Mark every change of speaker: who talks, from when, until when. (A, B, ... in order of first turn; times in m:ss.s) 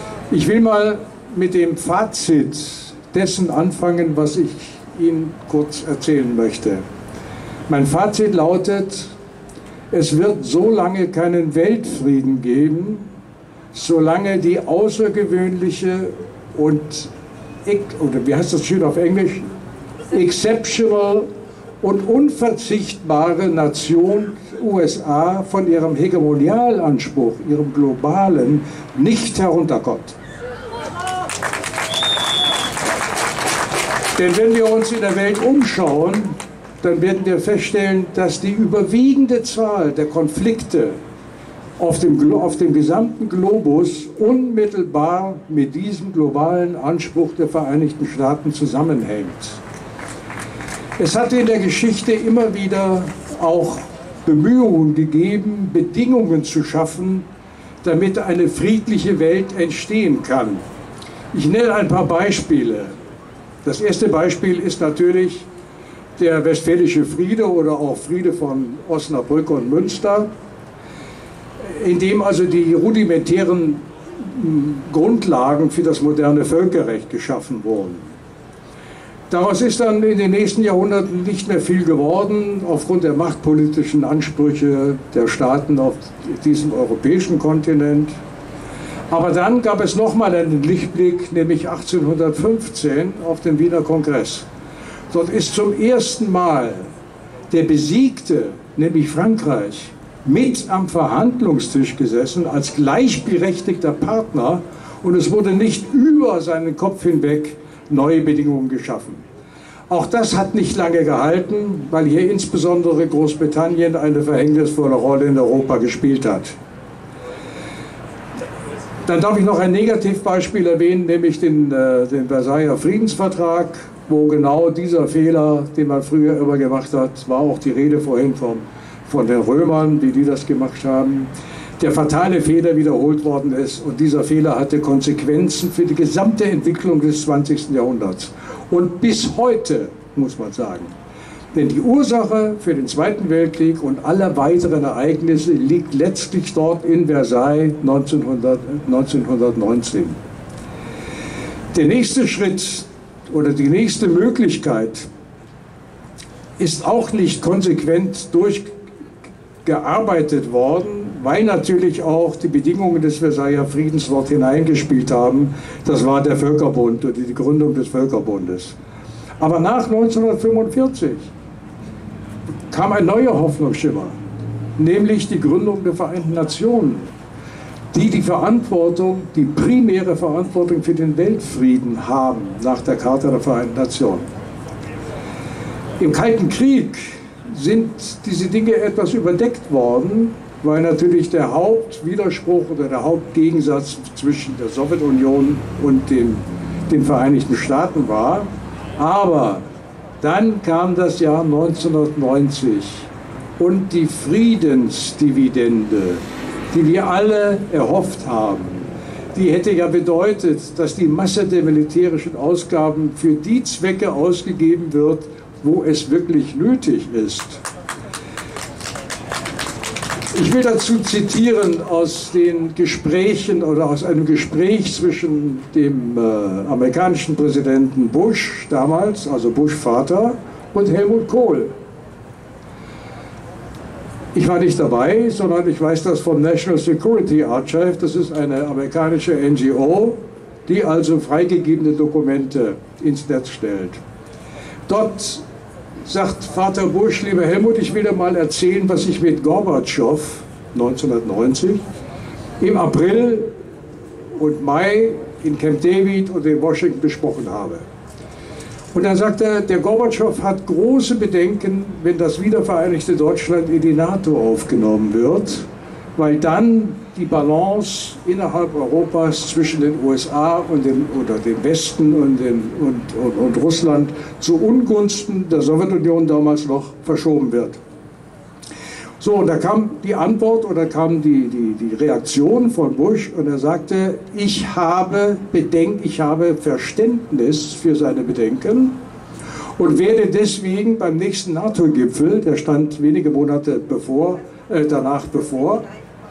0:00.3-0:06.8 A
0:07.7-0:09.1 A
0:09.9-0:13.1 A
0:13.7-0:17.1 A
0:17.7-0:19.5 A
0:20.1-0:21.3 A
0:21.8-0:30.2 A
0:34.2-0:41.0 A
0:41.8-0:49.6 A
0:51.0-0:57.3 A
0:57.8-1:00.6 A
1:01.3-1:03.0 A
1:03.6-1:05.5 A
1:06.2-1:10.3 A
1:11.6-1:18.1 A
1:19.3-1:28.1 A
1:29.1-1:34.5 A
1:35.1-1:36.9 A
1:37.5-1:49.2 A
1:49.9-1:56.6 A
1:59.1-2:20.9 A
2:21.5-2:30.2 A
2:31.7-2:35.1 A
2:36.6-2:38.7 A
2:39.6-2:48.8 A
2:49.4-2:51.3 A
2:52.7-2:54.2 A
2:54.8-2:57.1 A
2:57.9-3:04.3 A
3:06.0-3:19.6 A
3:20.2-3:37.6 A
3:40.3-3:51.7 A
3:54.3-4:04.0 A
4:04.9-4:05.4 A
4:06.0-4:11.8 A
4:12.6-4:13.5 A
4:14.4-4:17.8 A
4:18.9-4:37.8 A
4:39.2-4:49.0 A
4:49.8-4:55.8 A